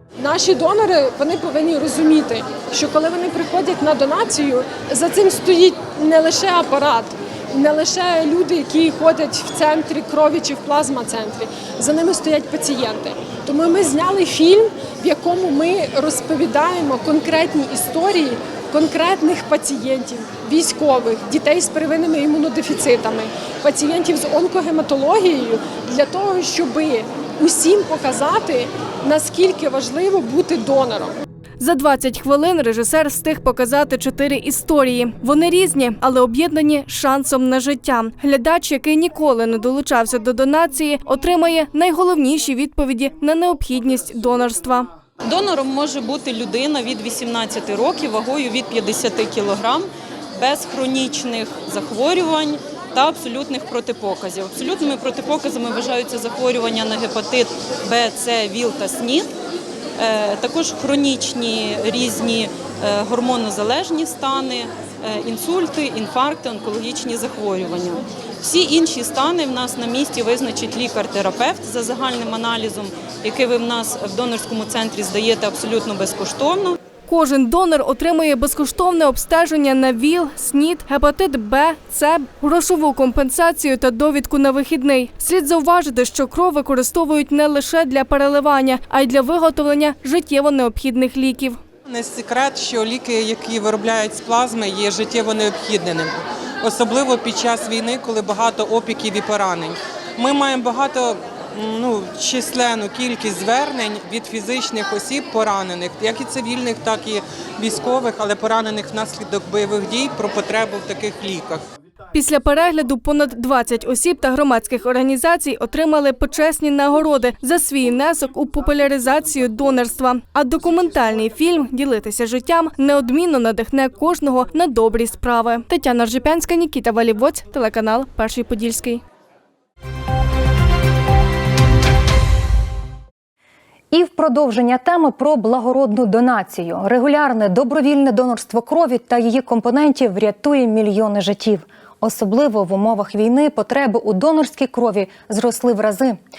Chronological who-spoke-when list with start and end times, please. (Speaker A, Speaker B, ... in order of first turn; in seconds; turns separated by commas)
Speaker A: 0.2-31.1, Speaker B: 31.6-44.9, Speaker C: 45.2-59.3, Speaker C: 60.0-76.8, Speaker B: 77.1-91.6, Speaker D: 91.9-111.6, Speaker B: 112.1-129.0, Speaker E: 133.9-146.2